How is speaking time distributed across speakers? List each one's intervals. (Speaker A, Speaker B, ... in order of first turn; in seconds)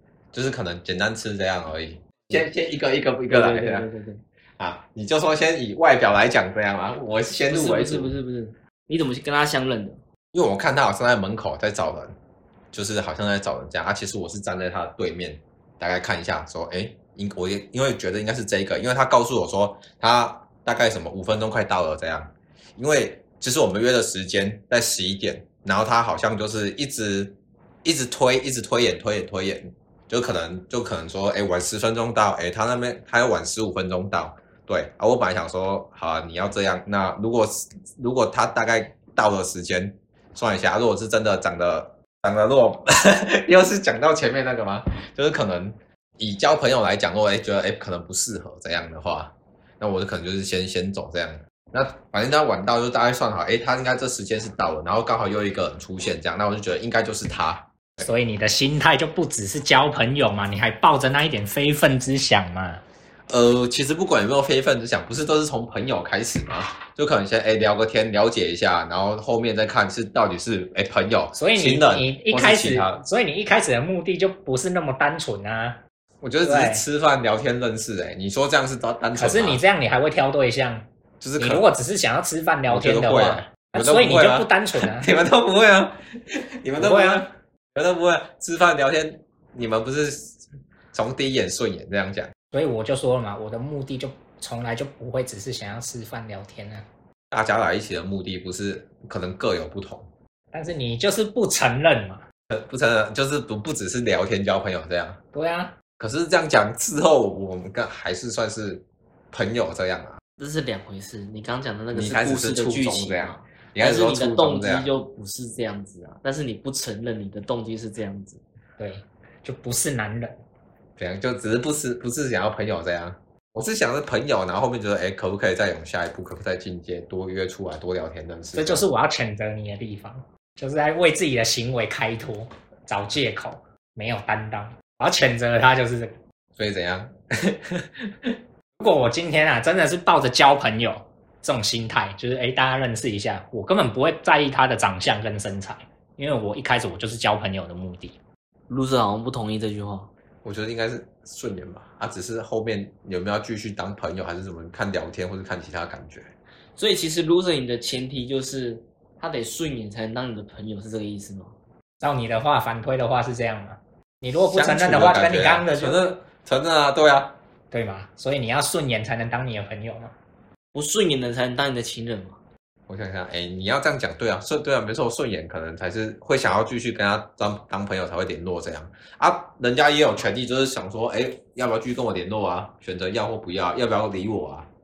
Speaker A: 0.3-3.9, 4.6-8.2, 10.3-12.1, 12.7-58.0, 63.3-73.0, 76.2-79.6, 81.2-81.7, 82.7-90.4, 90.9-92.3, 97.3-100.1, 102.5-105.2, 106.0-110.2, 111.9-114.9, 121.0-128.8, 136.6-138.3, 150.4-156.3, 164.4-167.3, 172.9-184.7
Speaker B: 3.3-4.2, 7.5-10.0, 110.4-118.4, 148.7-150.1, 156.8-161.5, 170.7-172.4
Speaker C: 58.0-62.8, 71.3-75.8, 76.4-76.8, 79.1-80.8, 81.4-85.1, 86.8-87.2, 92.5-96.8, 100.5-102.2, 105.3-105.7, 118.8-120.4, 128.5-136.1, 138.8-148.2, 162.0-166.0, 167.7-170.1